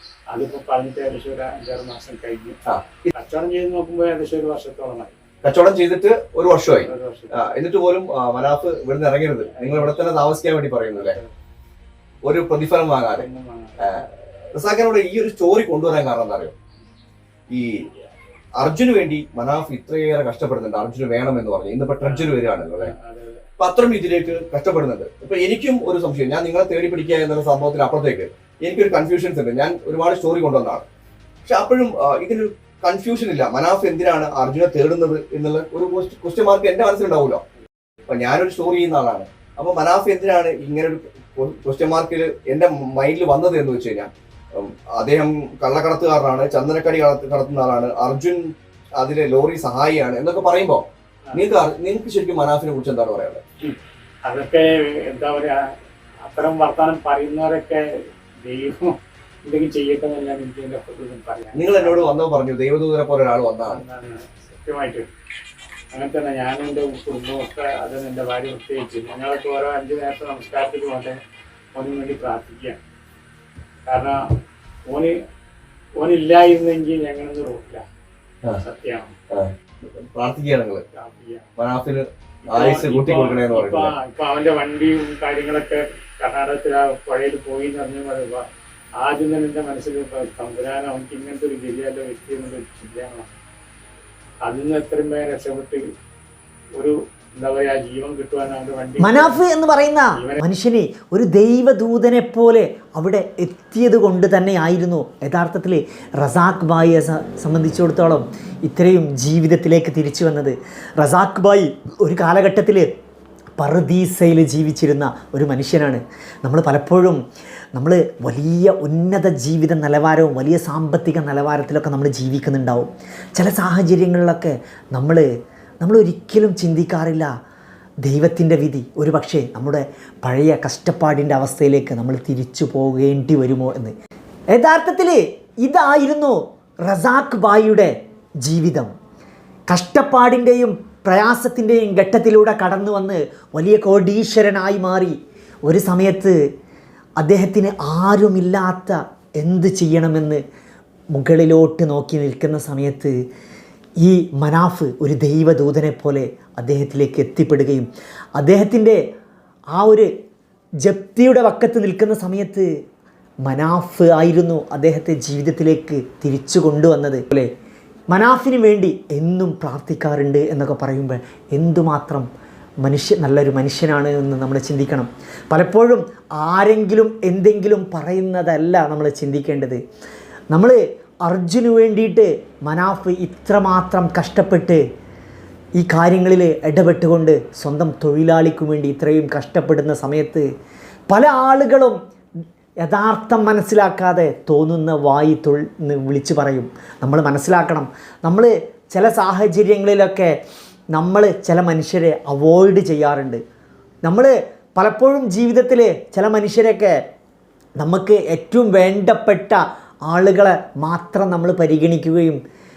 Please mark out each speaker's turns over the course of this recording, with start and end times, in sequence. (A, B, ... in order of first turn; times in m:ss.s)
0:00.3-0:02.6 A
0:02.7-0:03.1 B
0:03.1-0:05.2 A
0:05.4-0:11.2 B
0:06.8-0:07.5 A
0:09.4-0:10.1 A
0:10.9-0:11.3 A
0:12.2-0:13.3 B
0:13.1-0:13.8 A
0:13.8-0:16.5 B
0:17.5-0:17.8 B
0:18.6-0:22.9 B
0:22.0-0:23.4 A
0:23.6-0:30.8 B
0:31.4-0:37.4 B
0:38.1-0:53.4 B
0:53.6-0:55.6 A
0:56.2-0:57.8 A
0:58.4-1:02.0 A
1:01.5-1:03.8 B
1:03.6-1:05.1 A
1:05.9-1:11.2 A
1:11.7-1:12.8 A
1:13.8-1:14.2 A
1:14.9-1:15.1 A
1:16.0-1:17.8 A
1:18.6-1:19.1 A
1:20.1-1:20.8 B
1:20.9-1:21.5 A
1:21.6-1:23.9 B
1:22.4-1:28.4 A
1:29.0-1:33.3 A
1:34.4-1:35.8 A
1:36.7-1:39.4 A
1:39.0-1:52.9 C
1:40.1-1:40.4 A
1:53.6-1:57.2 C
1:57.7-2:05.3 C
2:05.8-2:07.3 C
2:08.0-2:13.9 C
2:14.5-2:18.9 C
2:19.7-2:26.4 C
2:27.2-2:30.4 C
2:31.1-2:33.1 C
2:34.0-2:39.0 C
2:39.7-2:40.1 C
2:40.8-2:42.7 C
2:43.4-2:47.5 C
2:48.1-2:52.3 C
2:52.8-2:59.8 C
3:00.5-3:04.8 C
3:05.8-3:10.4 C
3:11.1-3:12.0 C
3:12.8-3:20.4 C
3:20.9-3:23.4 C
3:24.0-3:27.0 C
3:27.8-3:32.4 C